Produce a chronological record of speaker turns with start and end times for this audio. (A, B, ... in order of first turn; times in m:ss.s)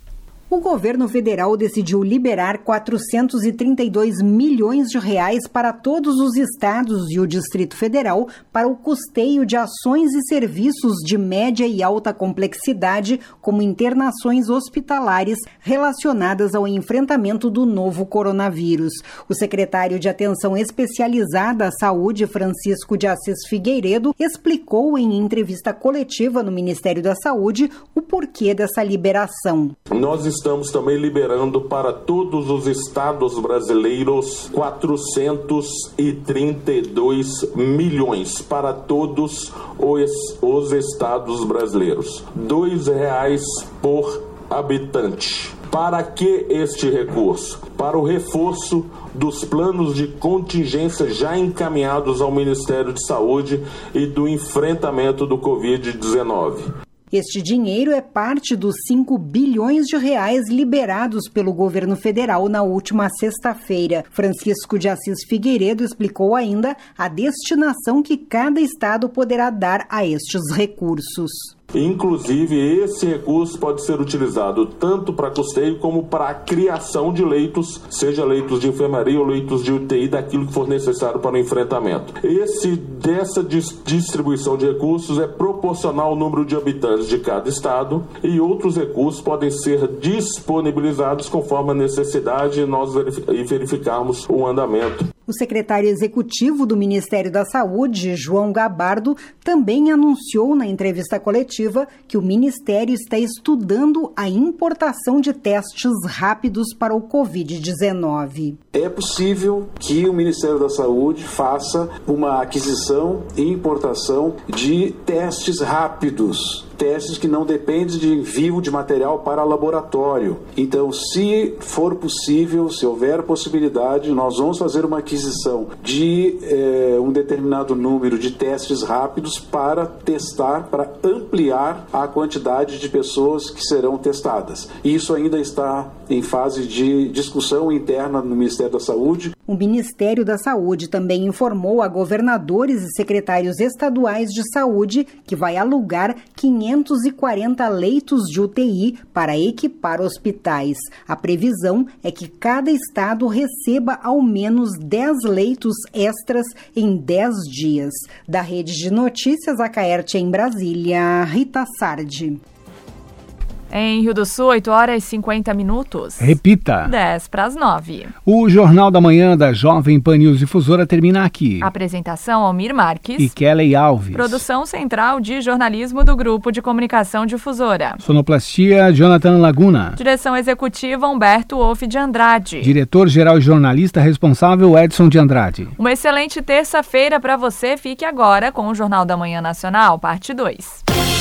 0:00.5-0:29.7 A
0:29.9-0:56.7 B
0:57.1-1:11.5 A
1:11.7-1:35.1 B
1:35.3-1:48.6 A
1:48.7-2:19.3 C
2:19.5-2:42.4 A
2:43.7-2:48.1 D
2:46.2-2:46.9 E
2:48.2-2:51.7 E
2:51.6-2:53.3 D
2:53.2-2:54.4 E
2:54.1-2:58.0 D
2:58.0-3:00.0 E
3:00.0-3:02.7 D
3:02.6-3:05.7 E
3:05.8-3:10.8 D